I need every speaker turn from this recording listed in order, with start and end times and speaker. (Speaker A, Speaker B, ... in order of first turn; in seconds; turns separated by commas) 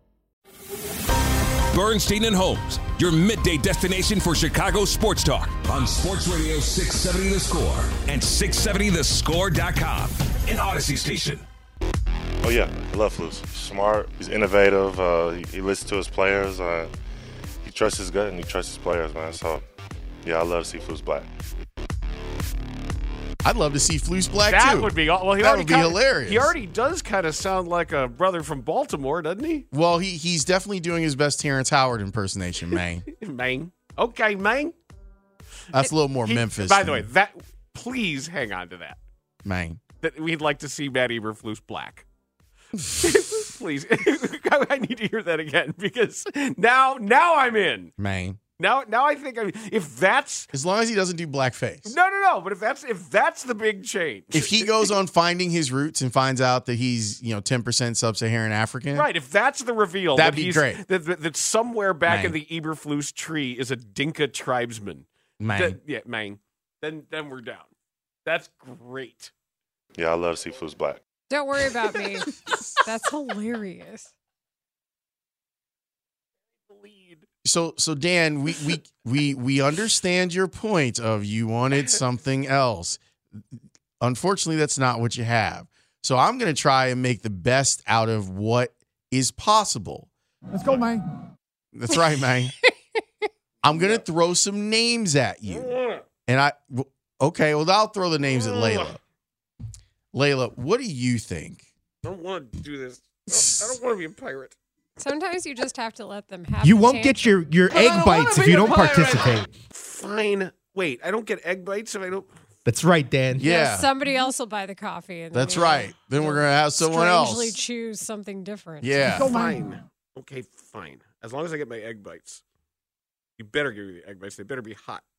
Speaker A: 1.7-5.7, Speaker B: 1.9-11.4, Speaker C: 12.4-16.9, Speaker C: 17.6-19.6, Speaker C: 20.2-21.3, Speaker D: 23.4-26.5, Speaker A: 24.4-29.6, Speaker D: 29.7-33.0, Speaker A: 33.1-34.8, Speaker D: 35.7-37.1, Speaker A: 36.2-39.0, Speaker D: 39.4-39.8, Speaker A: 40.0-42.1, Speaker A: 43.0-47.9, Speaker D: 48.0-48.4, Speaker A: 48.6-50.5, Speaker D: 50.5-51.9, Speaker A: 51.9-54.9, Speaker D: 54.3-59.1, Speaker A: 58.9-67.7, Speaker D: 60.1-60.8, Speaker D: 62.0-62.4, Speaker D: 65.4-65.8, Speaker A: 68.2-69.3, Speaker C: 70.0-71.0, Speaker E: 71.3-74.1, Speaker A: 76.7-77.2, Speaker D: 77.4-83.4, Speaker D: 84.0-90.1, Speaker A: 90.6-90.8, Speaker D: 91.7-92.5, Speaker E: 92.6-93.0, Speaker D: 93.6-95.8, Speaker A: 93.7-94.0, Speaker A: 95.5-96.0, Speaker D: 96.3-99.0, Speaker A: 98.3-99.0, Speaker D: 100.1-101.7, Speaker A: 102.0-104.5, Speaker E: 105.0-109.4, Speaker F: 106.6-109.5, Speaker A: 107.9-112.3, Speaker F: 112.7-113.4, Speaker D: 113.3-113.9, Speaker E: 113.4-119.2, Speaker D: 115.3-117.6, Speaker D: 118.8-119.4, Speaker A: 119.1-122.4, Speaker F: 119.1-119.5, Speaker A: 123.4-125.0